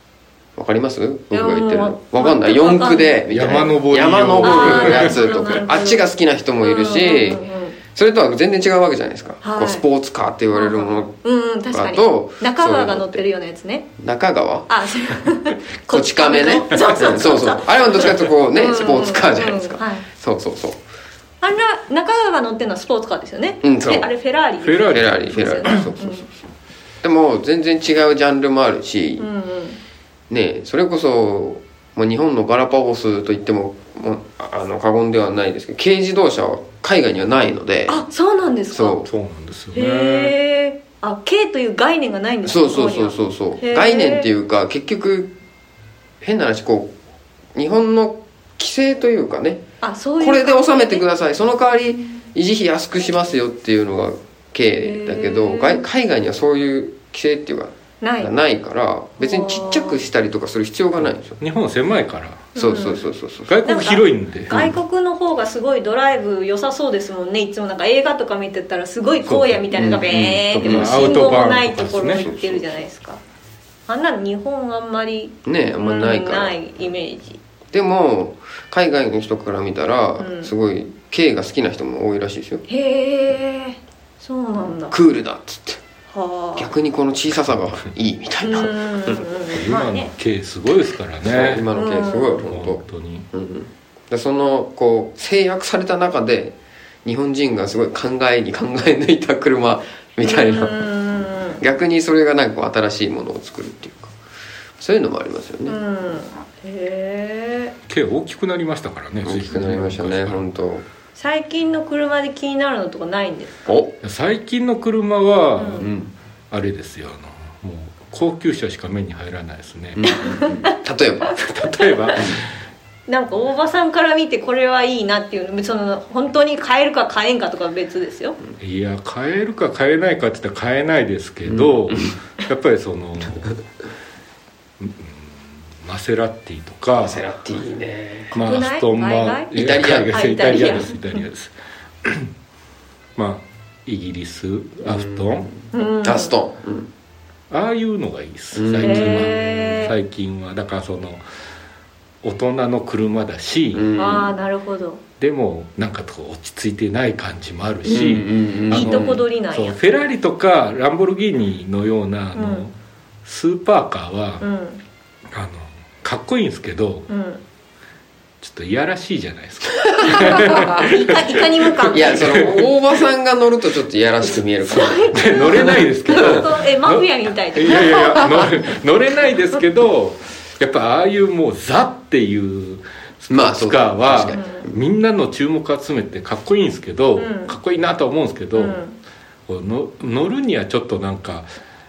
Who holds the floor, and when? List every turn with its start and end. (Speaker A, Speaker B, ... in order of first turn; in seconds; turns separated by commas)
Speaker A: 0.6-11.1, Speaker B: 1.3-3.2, Speaker C: 3.3-5.2, Speaker B: 4.4-6.1, Speaker B: 6.6-7.8, Speaker B: 9.4-9.8, Speaker B: 10.5-13.8, Speaker A: 11.7-13.2, Speaker A: 14.0-14.7, Speaker B: 14.7-20.0, Speaker A: 15.9-20.8, Speaker B: 21.4-26.2, Speaker A: 23.6-24.1, Speaker C: 24.6-25.8, Speaker A: 24.9-26.4, Speaker A: 27.0-29.3, Speaker B: 29.2-29.8, Speaker A: 30.3-38.0, Speaker B: 37.9-39.0, Speaker A: 38.7-39.1, Speaker C: 39.1-40.3, Speaker B: 39.7-44.3, Speaker A: 42.4-45.3, Speaker A: 46.2-46.9, Speaker A: 47.5-49.6, Speaker B: 49.8-51.0, Speaker A: 50.2-61.4, Speaker B: 54.8-55.8, Speaker B: 58.0-58.3, Speaker B: 59.2-60.0, Speaker C: 61.4-62.5, Speaker B: 62.5-63.0, Speaker A: 62.5-63.6, Speaker C: 63.5-64.7, Speaker B: 63.6-73.2, Speaker C: 69.2-72.2, Speaker A: 69.7-71.3, Speaker A: 72.1-72.8, Speaker B: 73.9-77.4, Speaker A: 75.4-76.5, Speaker A: 77.7-82.6, Speaker B: 80.2-80.5, Speaker B: 82.7-85.0, Speaker A: 84.9-85.8, Speaker B: 86.1-86.7, Speaker A: 86.5-89.3, Speaker B: 88.4-90.1, Speaker C: 89.5-91.7, Speaker A: 91.2-92.8, Speaker B: 91.7-92.4, Speaker C: 92.5-93.2, Speaker A: 93.3-100.8, Speaker B: 100.2-101.6, Speaker A: 101.6-104.1, Speaker A: 104.8-105.8, Speaker B: 105.7-107.7, Speaker C: 107.9-110.4, Speaker A: 109.2-110.8, Speaker B: 111.2-113.7, Speaker A: 113.7-113.9, Speaker C: 114.0-116.0, Speaker B: 115.5-115.9, Speaker A: 115.8-116.1, Speaker C: 116.5-120.0, Speaker A: 120.0-121.4, Speaker B: 120.0-120.8, Speaker C: 121.4-122.5, Speaker B: 121.8-122.2, Speaker B: 123.1-128.4, Speaker C: 128.6-133.6, Speaker A: 131.4-132.1, Speaker C: 134.8-137.2, Speaker A: 136.9-138.3, Speaker C: 138.3-141.5, Speaker B: 138.4-139.5, Speaker A: 139.5-140.8, Speaker B: 140.1-141.2, Speaker C: 142.0-142.3, Speaker C: 143.2-145.5, Speaker A: 144.8-146.9, Speaker B: 145.7-146.3, Speaker C: 147.5-151.2, Speaker A: 148.5-149.3, Speaker B: 148.8-149.9, Speaker C: 152.2-153.9, Speaker A: 153.7-154.3, Speaker B: 153.9-155.0, Speaker C: 155.2-162.7, Speaker A: 157.8-159.2, Speaker B: 158.7-159.8, Speaker B: 162.3-162.6, Speaker C: 163.2-164.4, Speaker B: 164.4-164.8, Speaker C: 165.3-167.1, Speaker B: 167.1-167.4, Speaker C: 168.4-172.7, Speaker B: 170.0-172.3, Speaker A: 170.2-170.8, Speaker A: 171.9-176.5, Speaker B: 174.6-178.5, Speaker C: 175.1-188.8, Speaker A: 177.7-178.5, Speaker A: 183.3-184.8, Speaker B: 184.3-184.7, Speaker B: 187.2-187.6, Speaker B: 188.5-188.9, Speaker C: 189.5-191.5